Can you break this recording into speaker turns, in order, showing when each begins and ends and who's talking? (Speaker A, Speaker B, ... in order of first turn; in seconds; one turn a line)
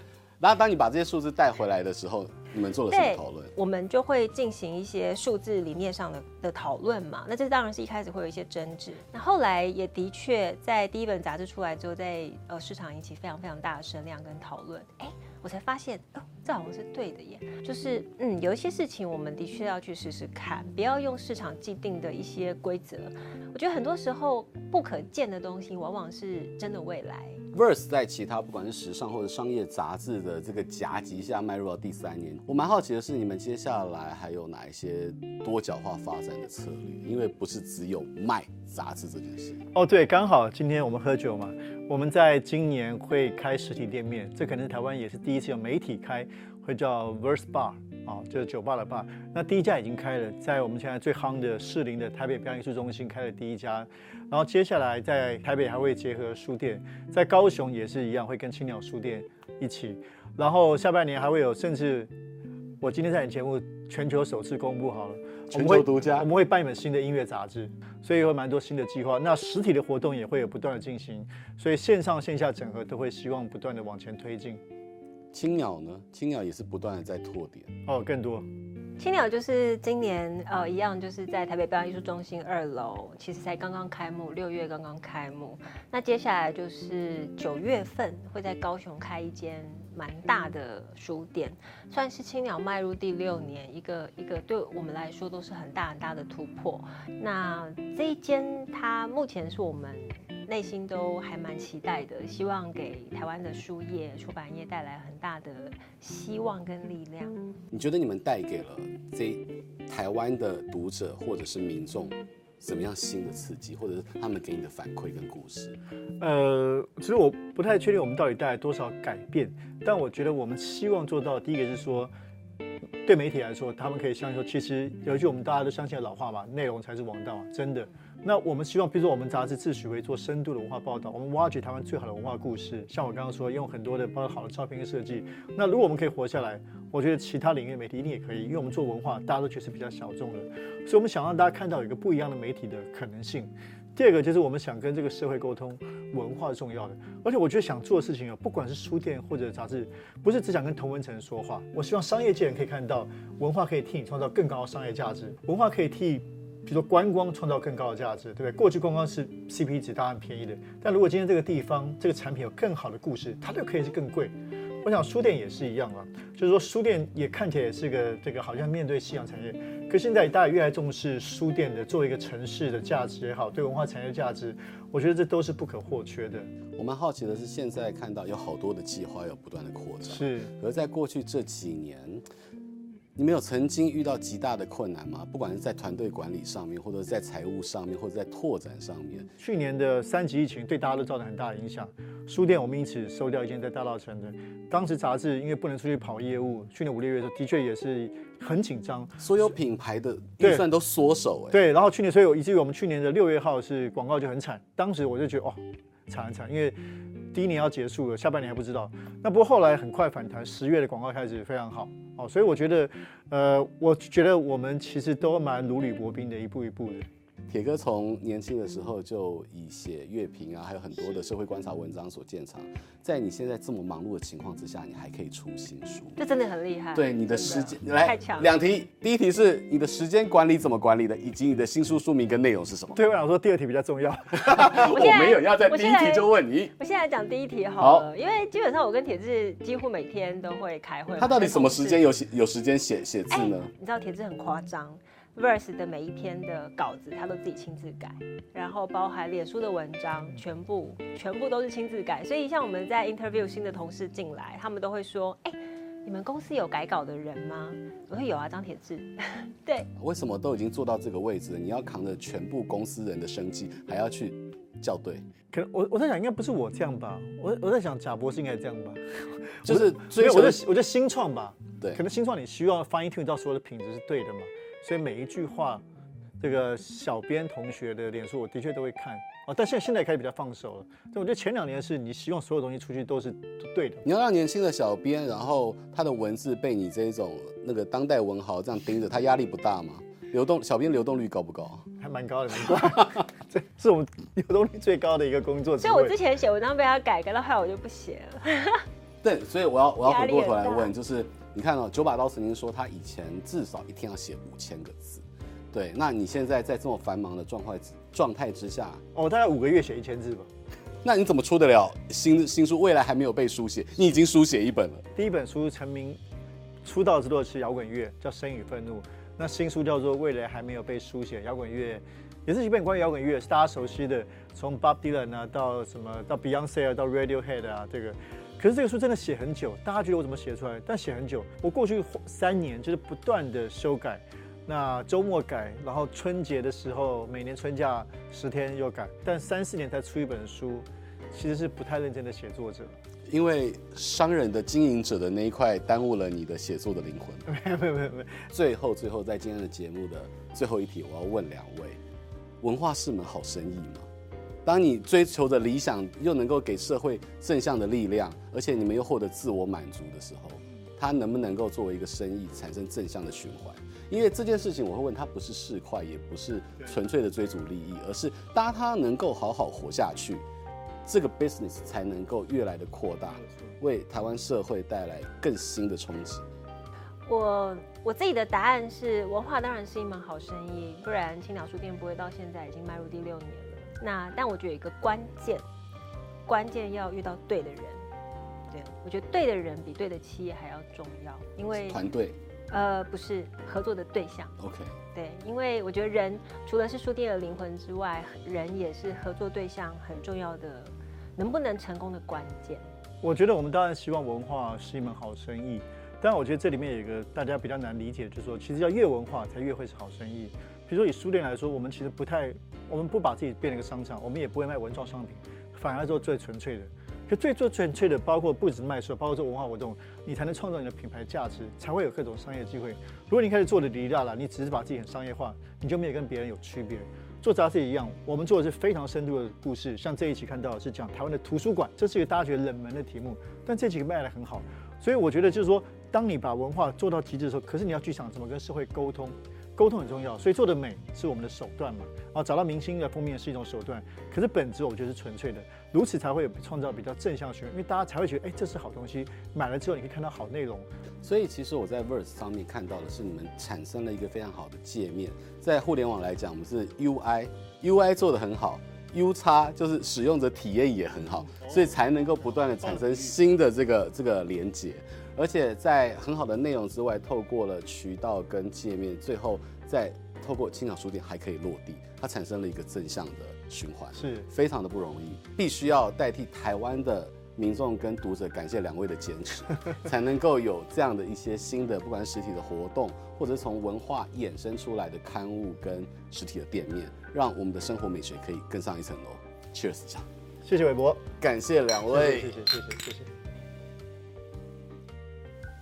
Speaker A: 0.4-3.5
Speaker B: 2.9-27.4
Speaker A: 27.5-39.6
Speaker C: 39.7-62.1
Speaker C: 62.8-74.6
Speaker A: 65.5-66.3
Speaker A: 75.3-77.7
Speaker C: 77.9-78.5
Speaker B: 79.0-107.4
Speaker A: 107.7-115.8
Speaker C: 116.2-122.1
Speaker C: 123.0-176.5
Speaker A: 176.8-182.2
Speaker C: 180.1-180.5
Speaker A: 183.2-189.3
Speaker C: 189.4-199.5
Speaker A: 199.2-201.6
Speaker C: 200.4-200.7
Speaker C: 201.5-206.8
Speaker C: 207.3-217.1
Speaker A: 217.5-226.2
Speaker B: 226.2-228.5
Speaker A: 226.9-233.0
Speaker C: 232.9-234.9
Speaker A: 234.3-236.7
Speaker B: 234.7-242.1
Speaker A: 237.8-238.1
Speaker A: 241.2-243.7
Speaker B: 243.3-259.9
Speaker A: 260.0-265.2
Speaker C: 265.5-275.8
Speaker A: 269.6-270.6
Speaker C: 276.4-284.0
Speaker A: 284.1-291.9
Speaker C: 292.0-296.2
Speaker B: 295.8-298.9
Speaker A: 299.2-309.0
Speaker B: 300.0-300.9
Speaker C: 309.1-310.5
Speaker A: 311.0-315.0
Speaker C: 315.1-316.2
Speaker C: 316.8-343.0
Speaker A: 343.3-347.5
Speaker C: 347.5-348.5
Speaker A: 348.5-352.0
Speaker A: 352.6-354.1
Speaker A: 354.7-370.4
Speaker A: 371.1-376.5
Speaker B: 377.3-385.7
Speaker B: 386.5-388.1
Speaker B: 388.7-392.1
Speaker A: 391.7-392.4
Speaker B: 392.7-394.6
Speaker A: 394.6-395.0
Speaker B: 395.1-402.9
Speaker C: 403.2-450.9
Speaker A: 451.2-490.3
Speaker C: 474.1-474.5
Speaker C: 490.6-491.2
Speaker A: 491.4-492.6
Speaker C: 492.1-493.3